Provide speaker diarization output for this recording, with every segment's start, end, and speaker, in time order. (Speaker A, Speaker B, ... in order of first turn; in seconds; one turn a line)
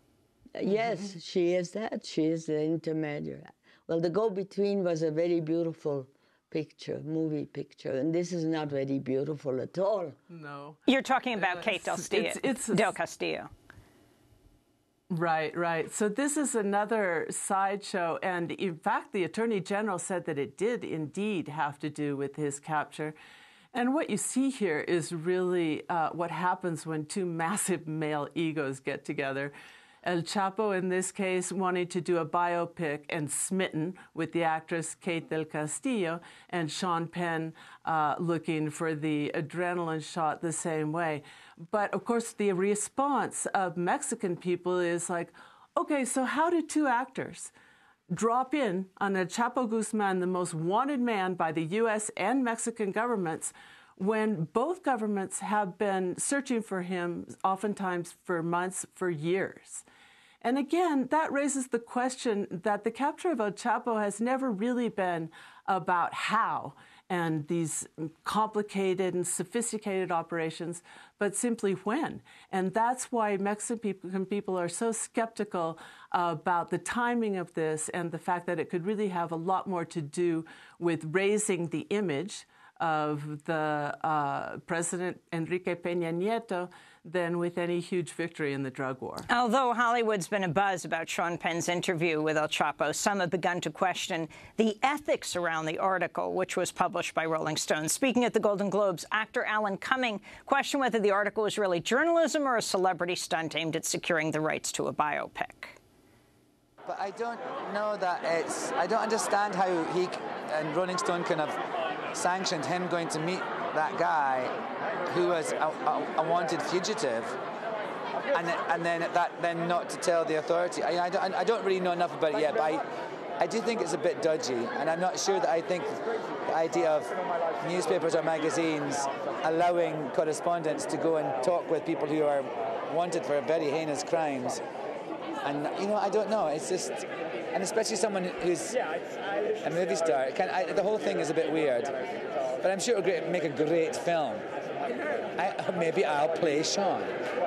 Speaker A: 0.6-10.2
Speaker B: 10.3-12.9
Speaker C: 10.9-13.5
Speaker B: 15.1-23.1
Speaker B: 23.7-29.5
Speaker B: 30.0-47.5
Speaker B: 48.1-59.8
Speaker B: 60.4-89.3
Speaker C: 89.3-105.8
Speaker D: 106.8-111.6
Speaker D: 112.1-117.3
Speaker D: 118.3-122.8
Speaker D: 123.4-134.6
Speaker D: 135.4-138.8
Speaker D: 139.6-141.9
Speaker D: 142.5-144.4
Speaker D: 145.3-147.1